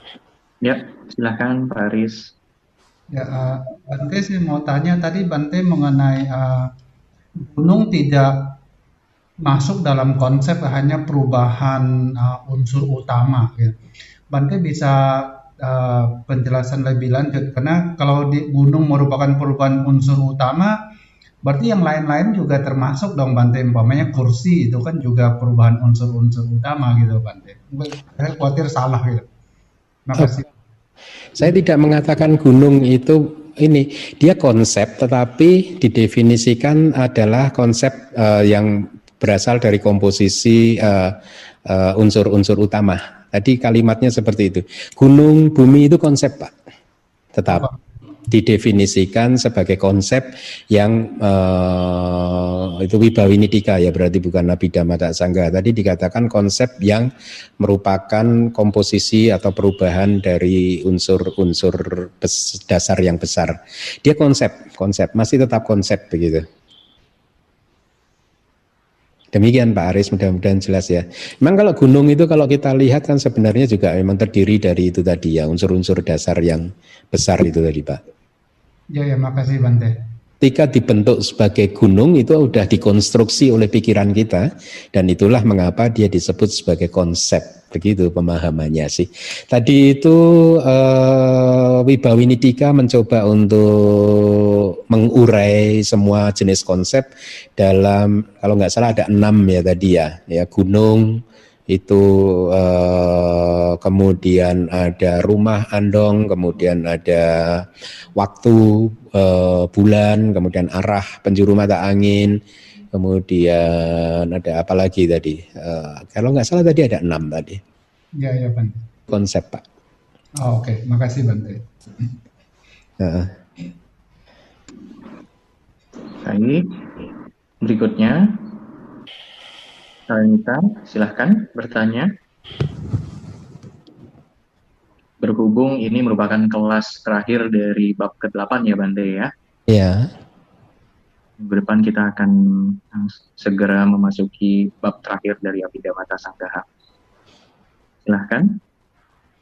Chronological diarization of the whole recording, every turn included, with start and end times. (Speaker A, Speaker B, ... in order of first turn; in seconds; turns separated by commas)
Speaker A: 0.6-2.3, Speaker B: 3.1-6.7, Speaker B: 7.4-8.5, Speaker B: 9.4-13.8, Speaker B: 14.3-20.8, Speaker B: 21.4-29.3, Speaker B: 30.1-30.5, Speaker C: 31.4-46.5, Speaker C: 47.4-47.7, Speaker B: 47.5-47.8, Speaker C: 48.3-57.1, Speaker C: 57.6-66.5, Speaker C: 69.3-78.0, Speaker B: 78.9-80.0, Speaker C: 80.4-112.4, Speaker C: 112.9-117.6, Speaker B: 118.2-118.9, Speaker C: 119.1-119.7, Speaker B: 120.4-122.1, Speaker C: 123.0-123.4, Speaker A: 126.2-126.8, Speaker A: 127.6-128.4, Speaker A: 130.1-132.1, Speaker A: 135.2-139.3, Speaker C: 139.7-140.1, Speaker A: 141.4-146.7, Speaker A: 148.1-148.6